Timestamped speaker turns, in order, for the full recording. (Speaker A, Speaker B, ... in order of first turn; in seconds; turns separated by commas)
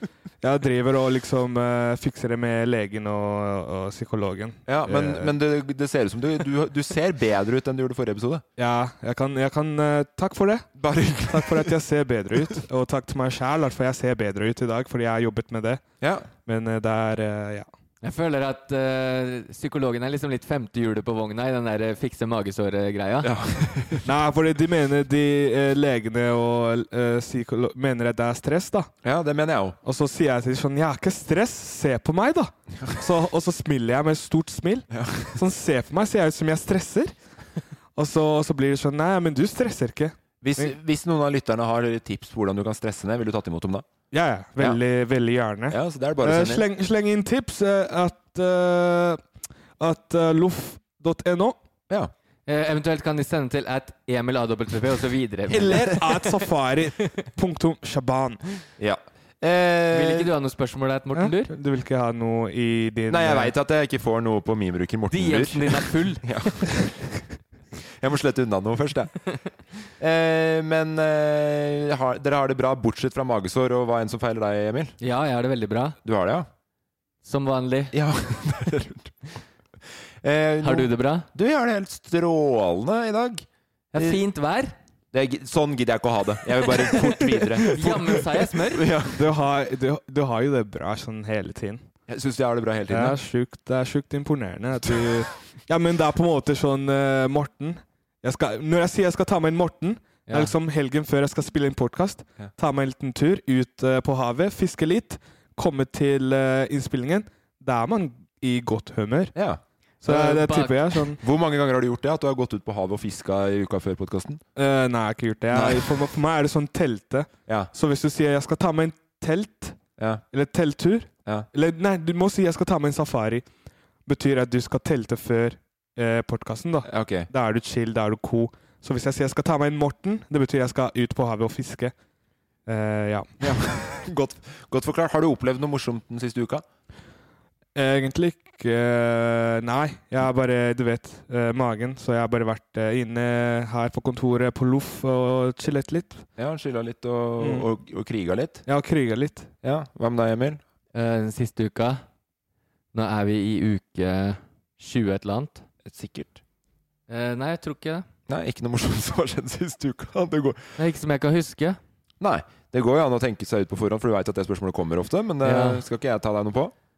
Speaker A: 0.4-5.3, Speaker B: 4.7-8.4, Speaker A: 8.6-10.7, Speaker B: 10.8-11.7, Speaker A: 11.3-15.8, Speaker B: 16.0-16.3, Speaker A: 16.4-17.7, Speaker C: 18.0-23.3, Speaker B: 23.2-24.1, Speaker A: 24.0-28.9, Speaker B: 29.0-29.8, Speaker A: 29.8-37.1, Speaker B: 34.9-35.4, Speaker A: 38.0-40.7, Speaker B: 40.4-43.9, Speaker A: 44.1-49.2, Speaker B: 45.7-46.6, Speaker A: 49.8-51.6, Speaker C: 52.5-56.0, Speaker A: 55.5-58.4, Speaker B: 58.8-60.3, Speaker C: 59.9-61.5, Speaker A: 61.1-63.5, Speaker B: 63.1-67.1, Speaker C: 65.1-66.2, Speaker B: 68.0-69.2, Speaker B: 70.0-74.9, Speaker C: 75.0-76.0, Speaker B: 76.0-76.5, Speaker C: 77.2-77.9, Speaker B: 77.9-79.1, Speaker B: 80.2-83.4, Speaker C: 80.6-81.3, Speaker C: 83.9-84.7, Speaker B: 85.1-89.3, Speaker C: 86.7-88.8, Speaker A: 89.2-91.8, Speaker B: 92.1-93.2, Speaker A: 92.9-109.3, Speaker C: 100.3-100.5, Speaker B: 109.3-109.6, Speaker A: 110.0-111.2, Speaker C: 110.0-111.0, Speaker B: 111.2-114.4, Speaker A: 114.5-119.8, Speaker B: 115.5-115.9, Speaker B: 120.0-120.2, Speaker A: 120.3-123.4, Speaker A: 124.0-131.9, Speaker B: 126.9-127.3, Speaker A: 132.7-133.6, Speaker B: 133.4-136.6, Speaker A: 137.7-146.2, Speaker B: 146.4-148.6, Speaker A: 147.4-147.7, Speaker A: 148.7-149.5, Speaker B: 149.6-150.6, Speaker C: 150.9-152.0, Speaker C: 152.9-155.6, Speaker B: 155.8-156.4, Speaker C: 157.1-158.1, Speaker B: 158.3-160.6, Speaker C: 160.8-161.8, Speaker B: 162.2-166.7, Speaker C: 165.4-165.8